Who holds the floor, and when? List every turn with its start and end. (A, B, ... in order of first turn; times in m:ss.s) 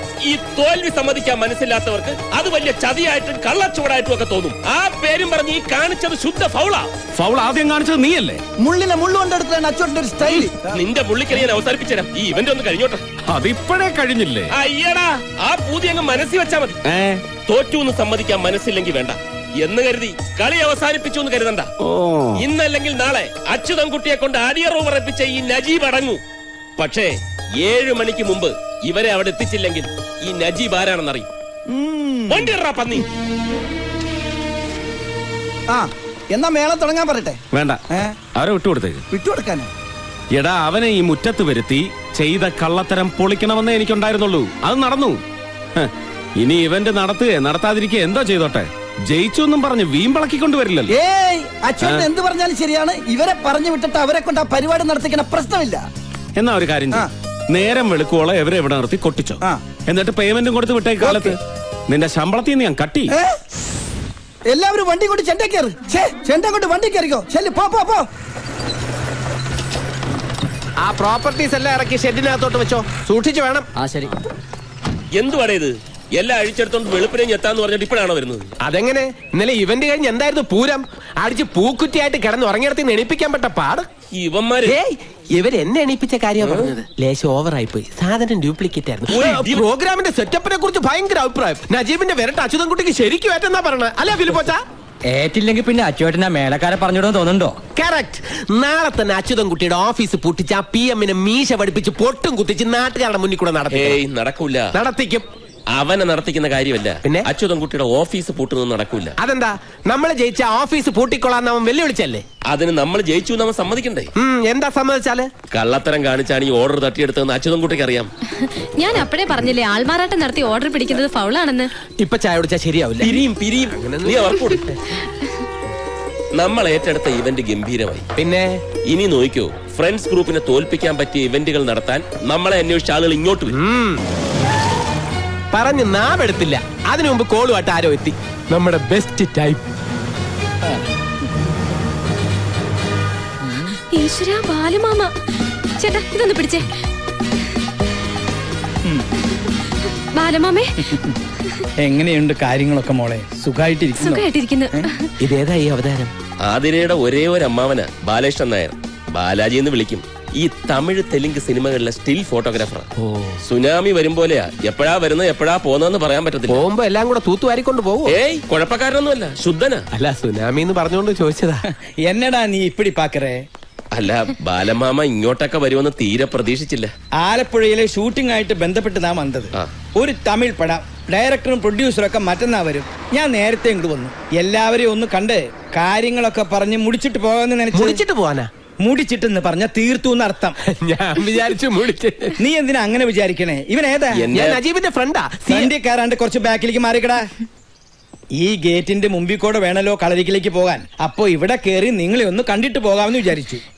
0:00.2-0:06.9 A
0:07.2-0:08.4 B
0:08.6-0:10.6 C
0:10.3-0:13.0 A
0:13.3-0:14.5 B
0:14.6-0:16.8 A
0:16.9-0:17.2 B
0:17.5-0:21.7 A
0:22.4-0:26.2 A
0:26.8-0:31.3 A
0:31.7-0:32.5 C
0:32.3-0:33.0 A
0:35.7-0:37.4 C
0:37.5-0:37.8 B
0:38.4-0:39.0 B
0:39.1-0:39.7 C
0:40.4-0:45.2 B
0:45.8-0:50.9 B
0:50.9-0:55.8 C
0:56.4-1:01.4 B
1:01.0-1:01.3 C
1:01.9-1:03.1 B
1:03.1-1:03.4 C
1:04.5-1:08.0 C
1:10.8-1:13.6 D
1:13.8-1:14.1 E
1:15.2-1:18.5 A
1:18.6-1:23.9 D
1:24.1-1:24.8 A
1:24.6-1:34.6 D
1:29.1-1:29.6 A
1:35.1-1:37.6 E
1:37.8-1:44.0 D
1:43.7-1:44.7 A
1:44.7-1:45.3 D
1:45.8-1:49.1 A
1:49.2-1:52.2 D
1:52.5-1:54.1 A
1:54.2-1:55.3 D
1:55.5-1:58.1 A
1:58.8-2:01.7 F
2:02.0-2:03.2 D
2:03.0-2:04.7 A
2:03.8-2:04.3 D
2:06.4-2:08.1 A
2:08.2-2:08.6 D
2:08.9-2:13.5 A
2:13.5-2:14.0 D
2:15.5-2:19.6 D
2:24.0-2:25.1 F
2:25.8-2:26.6 F
2:30.1-2:30.7 F
2:31.8-2:34.2 G
2:34.0-2:34.9 F
2:35.3-2:36.1 D
2:36.4-2:42.9 A
2:43.4-2:46.6 A
2:46.5-2:48.1 D
2:48.1-2:49.8 A
2:49.9-2:51.6 D
2:52.1-2:53.4 G
2:53.9-2:56.9 A
2:57.2-3:08.0 G
3:07.7-3:08.5 D
3:08.8-3:10.6 G
3:10.8-3:12.3 D
3:12.4-3:14.4 G
3:14.1-3:14.6 A
3:14.3-3:15.7 D
3:15.5-3:17.2 G
3:18.4-3:23.6 G